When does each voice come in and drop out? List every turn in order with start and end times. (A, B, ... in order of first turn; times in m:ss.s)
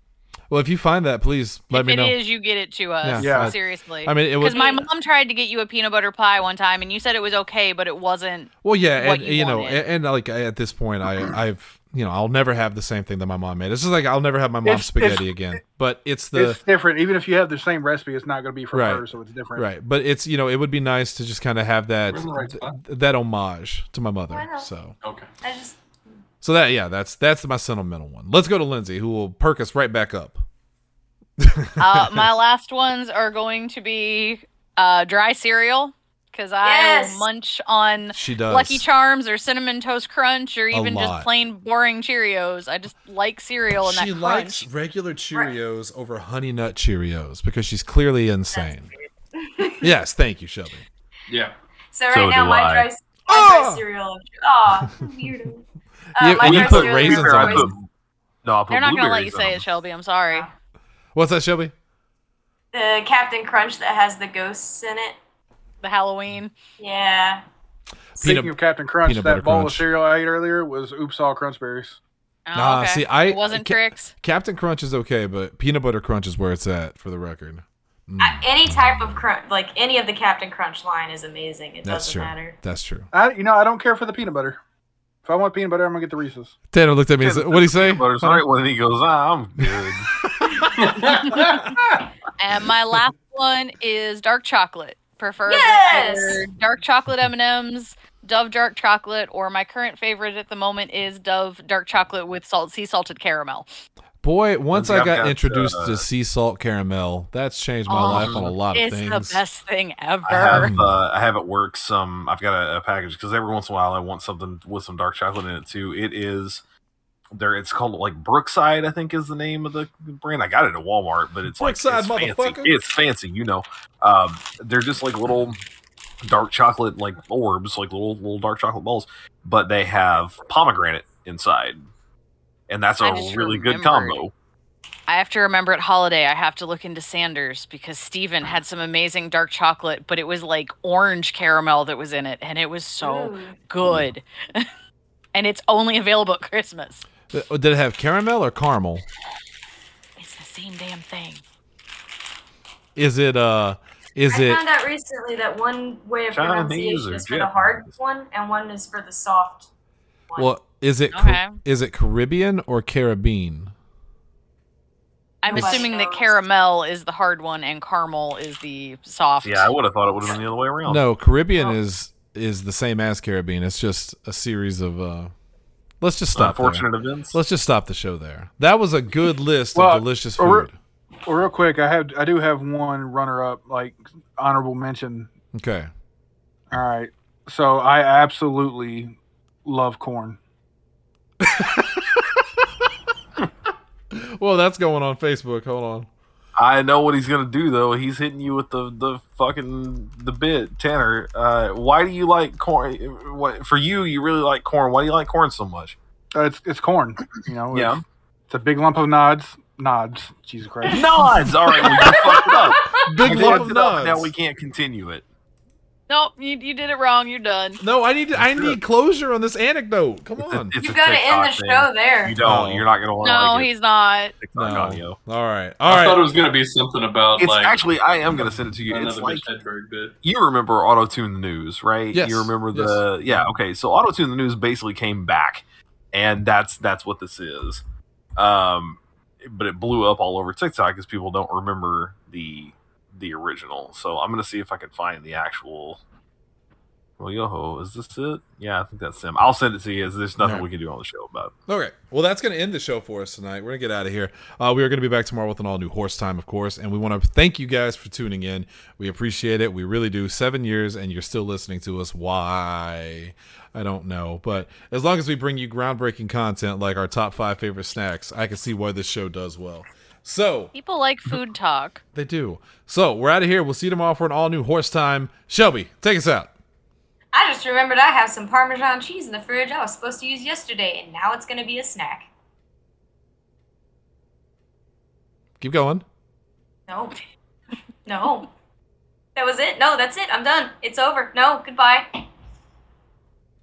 0:00.5-0:02.2 A
0:01.7-0:09.8 B
0:03.0-0:04.8 A
0:03.2-0:03.6 C
0:04.6-0:04.8 D
0:08.6-0:16.6 A
0:14.6-0:15.6 C
0:16.3-0:19.6 C
0:18.7-0:19.0 A
0:19.5-0:24.9 A
0:22.1-0:22.8 E
0:24.3-0:24.7 D
0:25.0-0:25.3 E
0:25.4-0:25.8 D
0:26.4-0:30.4 A
0:31.4-0:32.3 A
0:31.8-0:44.7 B
0:36.6-0:37.3 D
0:38.1-0:38.9 A
0:40.7-0:41.3 A
0:43.8-0:48.9 A
0:48.5-0:48.8 D
0:49.4-0:49.9 D
0:49.8-0:50.8 A
0:51.3-0:51.5 E
0:51.9-0:55.6 D
0:52.1-0:52.9 F
0:53.3-0:53.8 A
0:56.1-0:57.8 D
0:56.2-0:57.7 A
0:56.4-0:57.8 F
0:58.4-0:59.6 F
0:58.7-1:00.5 B
1:01.1-1:01.7 A
1:02.7-1:05.2 D
1:05.8-1:06.5 B
1:06.8-1:07.4 D
1:08.2-1:09.8 A
1:08.2-1:12.0 C
1:12.4-1:14.1 B
1:12.5-1:18.8 A
1:18.2-1:22.6 D
1:21.8-1:23.1 A
1:23.1-1:24.6 C
1:25.2-1:26.6 C
1:26.7-1:28.4 A
1:27.2-1:30.1 F
1:29.6-1:30.7 A
1:30.8-1:31.8 E
1:32.4-1:43.7 B
1:35.4-1:36.4 D
1:44.2-1:49.4 A
1:44.7-1:46.0 F
1:47.8-1:50.8 B
1:48.1-1:48.5 F
1:50.2-1:56.6 F
1:50.5-1:50.9 A
1:57.3-2:05.6 F
2:01.6-2:02.8 A
2:06.2-2:11.9 F
2:12.7-2:14.3 F
2:13.0-2:14.2 B
2:15.1-2:24.7 B
2:23.0-2:23.6 D
2:25.3-2:27.0 B
2:27.3-2:29.0 A
2:30.2-2:31.4 B
2:32.9-2:34.6 A
2:34.3-2:39.7 D
2:36.3-2:37.9 F
2:40.3-2:40.6 D
2:40.4-2:43.7 A
2:41.1-2:41.6 B
2:45.4-2:49.7 B
2:45.5-2:45.9 A
2:45.5-2:46.4 D
2:49.4-2:51.0 F
2:50.8-2:55.3 A
2:56.0-3:00.8 A
2:56.3-2:57.4 F
2:59.7-3:00.7 C
3:01.2-3:05.3 C
3:05.5-3:05.9 A
3:06.7-3:10.4 C
3:11.4-3:12.2 A
3:14.1-3:16.1 A
3:16.6-3:26.0 F
3:26.3-3:31.4 C
3:27.7-3:28.0 F
3:30.8-3:35.2 F
3:31.8-3:33.2 D
3:32.0-3:32.4 C
3:33.0-3:34.3 A
3:33.2-3:33.7 C
3:36.1-3:37.8 B
3:37.8-3:40.7 A
3:38.4-3:38.8 F
3:40.4-3:43.7 F
3:40.8-3:42.4 D
3:42.4-3:42.8 A
3:43.2-3:44.4 B
3:44.4-3:45.2 F
3:44.5-3:46.2 A
3:45.8-3:47.8 E
3:47.4-3:49.5 F
3:48.9-3:50.1 E
3:50.2-3:57.8 F
3:52.1-3:53.1 A
3:58.4-4:06.0 F
4:07.2-4:11.5 F
4:10.4-4:10.6 A
4:11.7-4:30.7 A
4:30.7-4:32.0 B
4:32.1-4:36.5 A
4:37.3-4:42.3 D
4:45.6-4:46.0 A
4:46.9-4:47.2 D
4:48.0-4:48.5 D
4:49.4-4:52.2 D